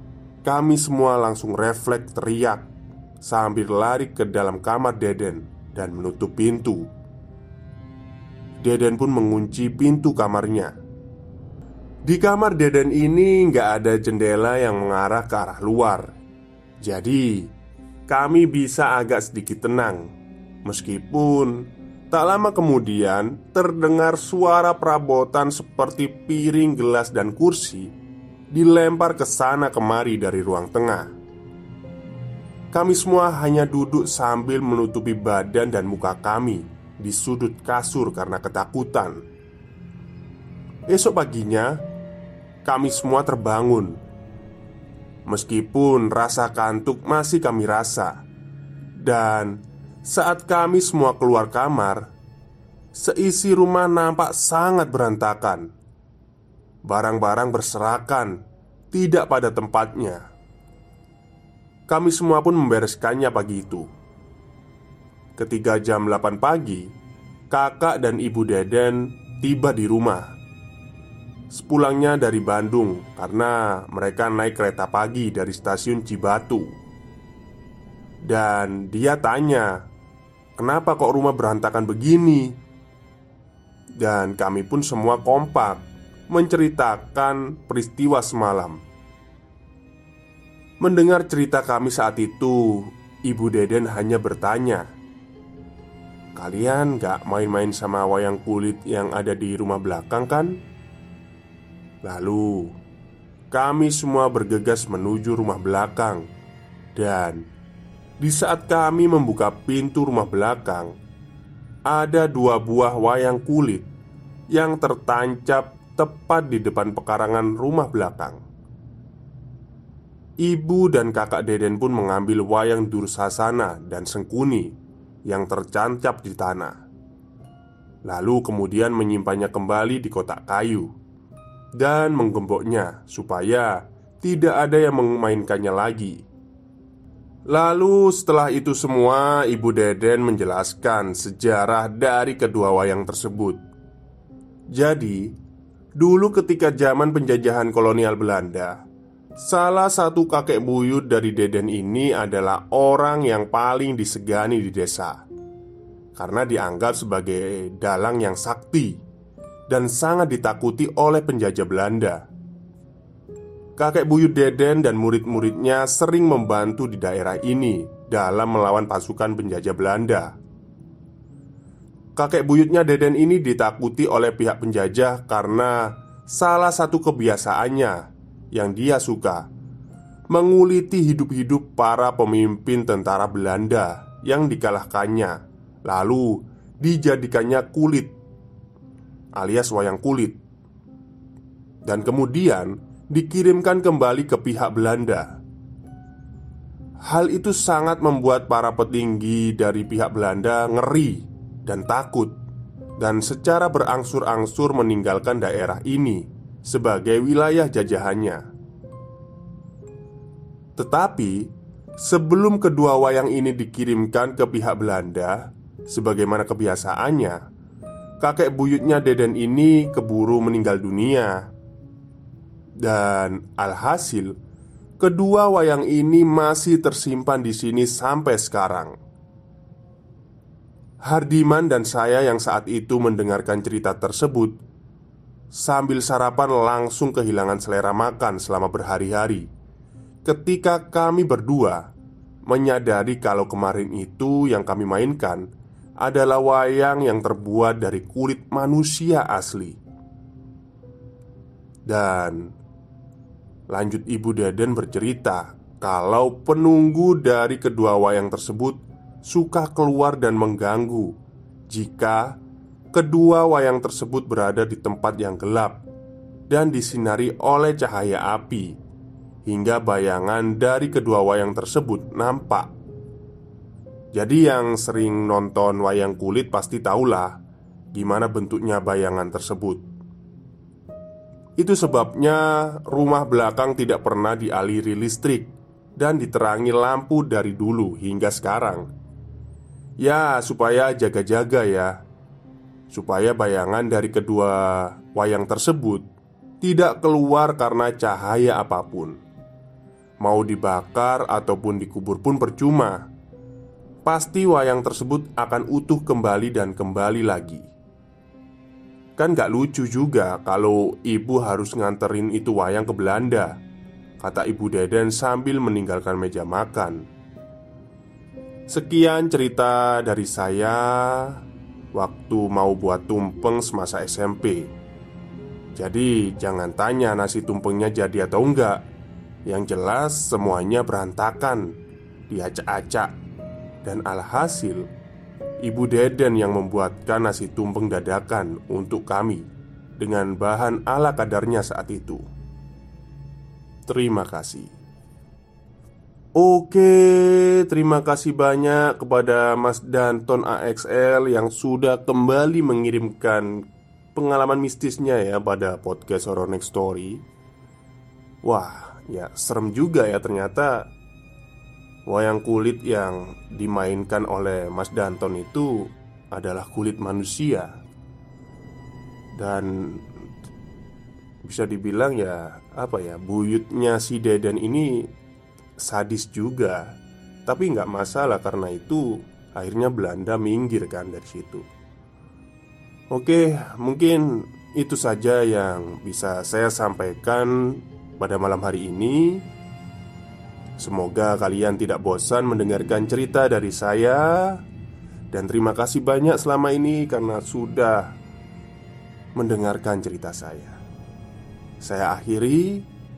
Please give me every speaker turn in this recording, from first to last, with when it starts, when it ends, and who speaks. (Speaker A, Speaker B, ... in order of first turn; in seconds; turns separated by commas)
Speaker A: 0.4-2.7, Speaker A: 3.2-6.9, Speaker A: 8.6-10.7, Speaker A: 12.1-16.1, Speaker A: 16.8-17.5, Speaker A: 18.1-20.1, Speaker A: 20.6-27.9, Speaker A: 28.5-31.1, Speaker A: 32.7-39.2, Speaker A: 40.9-41.8, Speaker A: 42.6-44.0, Speaker A: 45.3-48.1, Speaker A: 49.0-49.5, Speaker A: 50.0-52.1, Speaker A: 53.0-55.7, Speaker A: 56.9-60.2, Speaker A: 61.9-63.9, Speaker A: 65.4-66.9, Speaker A: 67.5-70.3, Speaker A: 71.5-76.7, Speaker A: 78.3-79.8, Speaker A: 80.6-82.5, Speaker A: 84.0-85.8, Speaker A: 86.3-88.8, Speaker A: 90.8-94.8, Speaker A: 96.3-100.6, Speaker A: 102.0-102.7, Speaker A: 103.5-106.2, Speaker A: 107.0-107.4, Speaker A: 108.2-110.9, Speaker A: 111.9-113.8, Speaker A: 114.5-118.4, Speaker A: 120.4-126.8, Speaker A: 128.1-130.9, Speaker A: 131.8-136.2, Speaker A: 137.5-143.6, Speaker A: 144.8-145.3, Speaker A: 146.0-148.8, Speaker A: 149.4-155.2, Speaker A: 156.2-159.0, Speaker A: 159.7-162.2, Speaker A: 163.8-170.3, Speaker A: 172.2-179.4, Speaker A: 180.3-188.1, Speaker A: 189.3-190.4, Speaker A: 191.8-195.4, Speaker A: 197.1-202.3, Speaker A: 203.0-208.4, Speaker A: 210.8-217.4, Speaker A: 218.2-221.4, Speaker A: 222.8-224.3, Speaker A: 225.0-228.9, Speaker A: 231.1-234.6, Speaker A: 235.5-239.5, Speaker A: 240.2-241.9, Speaker A: 242.5-245.4, Speaker A: 246.0-249.8, Speaker A: 251.9-252.5, Speaker A: 253.7-261.1, Speaker A: 261.7-262.4, Speaker A: 262.9-265.8, Speaker A: 266.5-268.8, Speaker A: 269.4-272.7, Speaker A: 274.1-277.4, Speaker A: 277.9-279.8, Speaker A: 281.6-288.9, Speaker A: 290.0-291.9, Speaker A: 292.9-296.0, Speaker A: 296.6-299.2, Speaker A: 300.2-303.0, Speaker A: 304.0-307.6, Speaker A: 309.2-313.5, Speaker A: 314.2-317.1, Speaker A: 318.7-321.4, Speaker A: 321.9-324.7, Speaker A: 325.8-328.8, Speaker A: 329.5-331.7, Speaker A: 332.3-333.1, Speaker A: 333.8-334.9, Speaker A: 335.6-339.5, Speaker A: 340.0-342.2, Speaker A: 343.9-344.7, Speaker A: 346.4-353.5, Speaker A: 354.1-357.2, Speaker A: 358.4-360.8, Speaker A: 362.1-367.8, Speaker A: 369.4-370.0, Speaker A: 371.4-375.1, Speaker A: 375.8-376.8, Speaker A: 377.4-381.6, Speaker A: 383.1-389.4, Speaker A: 390.8-394.6, Speaker A: 395.3-398.1, Speaker A: 399.4-400.8, Speaker A: 401.8-402.8